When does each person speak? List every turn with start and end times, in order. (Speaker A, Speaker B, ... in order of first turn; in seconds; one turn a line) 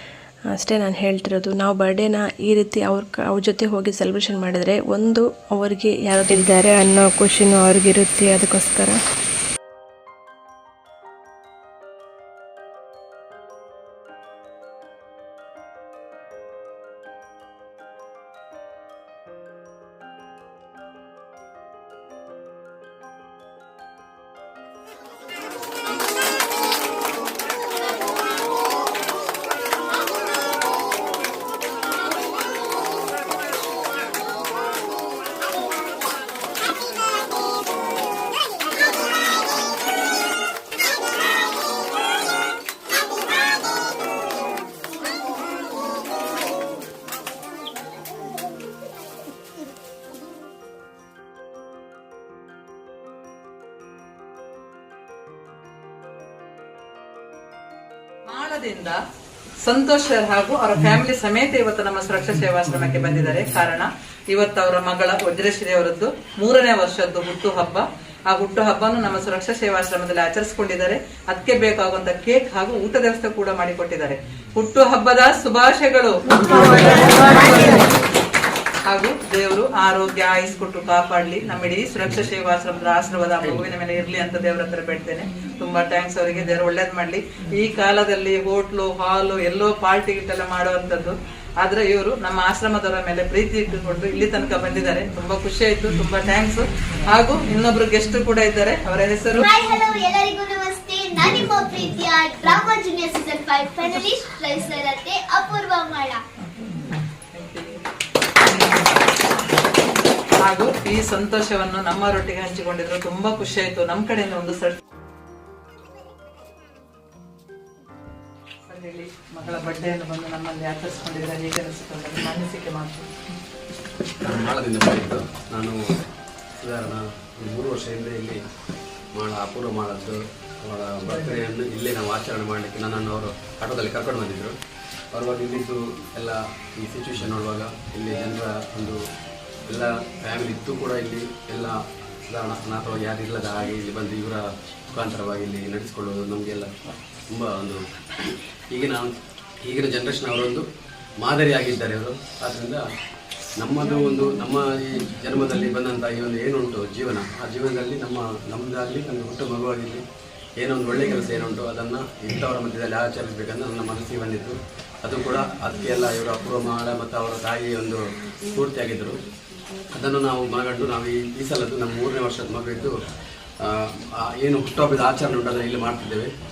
Speaker A: 0.5-9.0
Speaker B: 58.3-59.0
Speaker B: 59.6-77.8
Speaker B: 78.9-99.5
Speaker C: 99.4-106.2
Speaker B: 106.7-107.8
Speaker B: 110.5-114.8
Speaker B: 118.7-123.1
Speaker D: 124.2-126.0
Speaker D: 126.5-128.4
Speaker D: 129.1-134.6
Speaker B: 131.1-131.4
Speaker D: 135.1-139.0
Speaker D: 139.7-141.8
Speaker D: 142.3-146.7
Speaker D: 147.3-147.8
Speaker D: 148.7-149.1
Speaker D: 149.7-150.7
Speaker D: 151.2-152.8
Speaker D: 153.6-160.0
Speaker D: 160.6-169.2
Speaker D: 169.9-172.9
Speaker D: 173.6-176.3